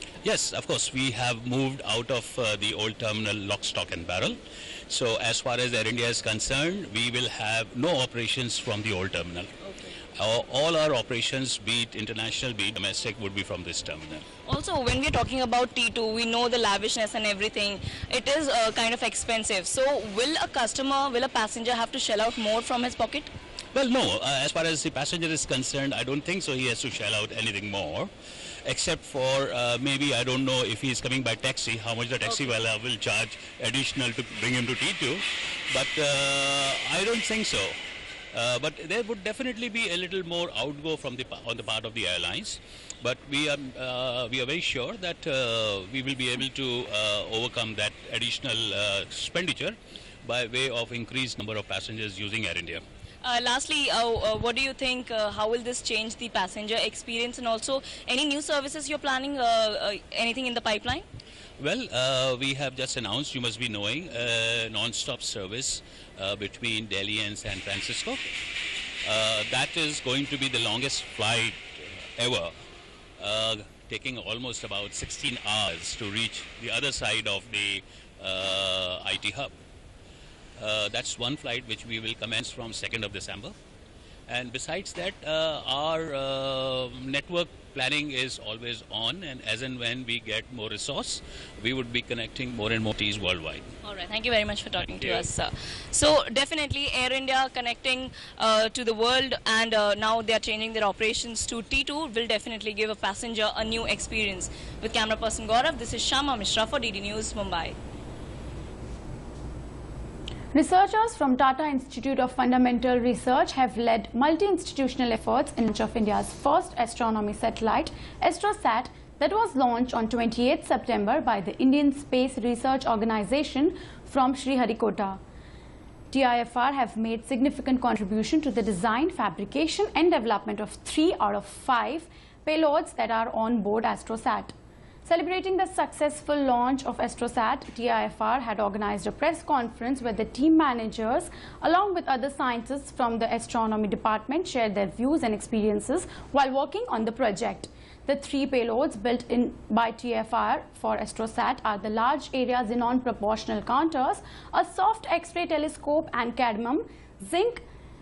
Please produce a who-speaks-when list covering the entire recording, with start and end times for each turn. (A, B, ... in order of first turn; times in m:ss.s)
0:00.2-0:09.5 A
0:10.2-0:14.3 A
0:14.5-0:23.3 B
0:23.7-0:28.1 A
0:28.6-0:37.8 A
0:38.3-0:52.8 A
0:53.2-1:01.0 B
1:01.6-1:08.3 A
1:09.0-1:12.6 A
1:13.2-1:19.6 A
1:20.6-1:23.6 A
1:24.3-1:33.7 A
1:33.8-1:47.8 B
1:50.5-2:05.2 C
2:06.1-2:14.5 C
2:15.0-2:37.6 C